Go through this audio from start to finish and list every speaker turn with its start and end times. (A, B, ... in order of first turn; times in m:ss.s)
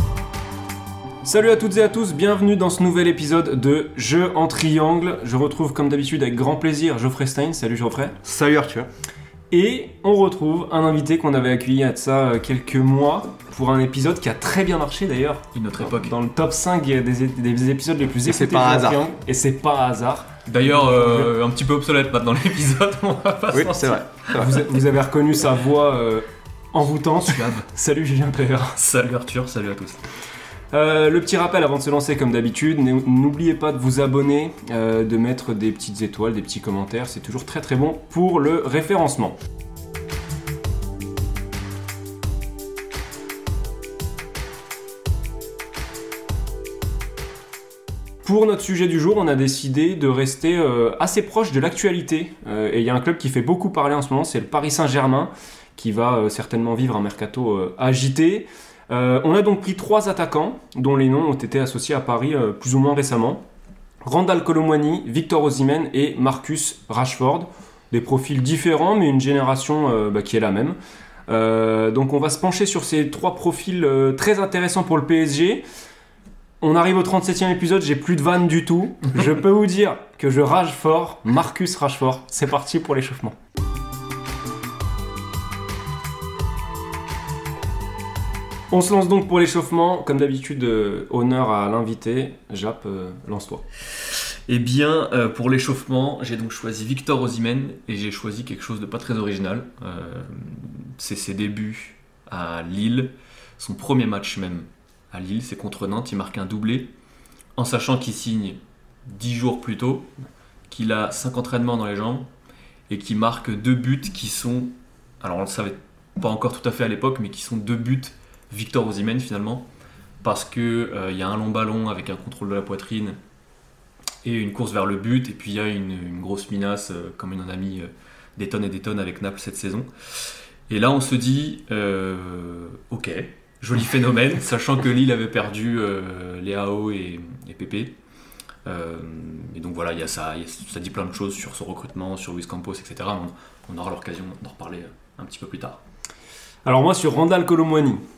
0:01.2-0:08.2 A
0:08.2-0:08.9 B
0:09.5-0:21.3 A
0:15.5-0:16.1 C
0:18.2-0:19.1 B
0:20.5-0:24.3 C
0:23.5-0:24.5 B
0:24.3-0:28.8 A
0:27.3-0:27.6 C
0:28.8-0:30.0 C
0:30.7-0:39.4 A
0:48.2-1:03.4 A
1:04.0-1:10.8 A
1:11.3-1:15.6 A
1:16.6-1:23.4 A
1:28.7-1:33.6 A
1:34.5-1:46.9 C
1:47.6-1:50.1 C
1:50.7-1:52.3 C
1:52.9-1:59.6 C
2:00.2-2:03.2 C
2:04.2-2:17.9 C
2:18.6-2:25.8 C
2:26.6-2:28.0 A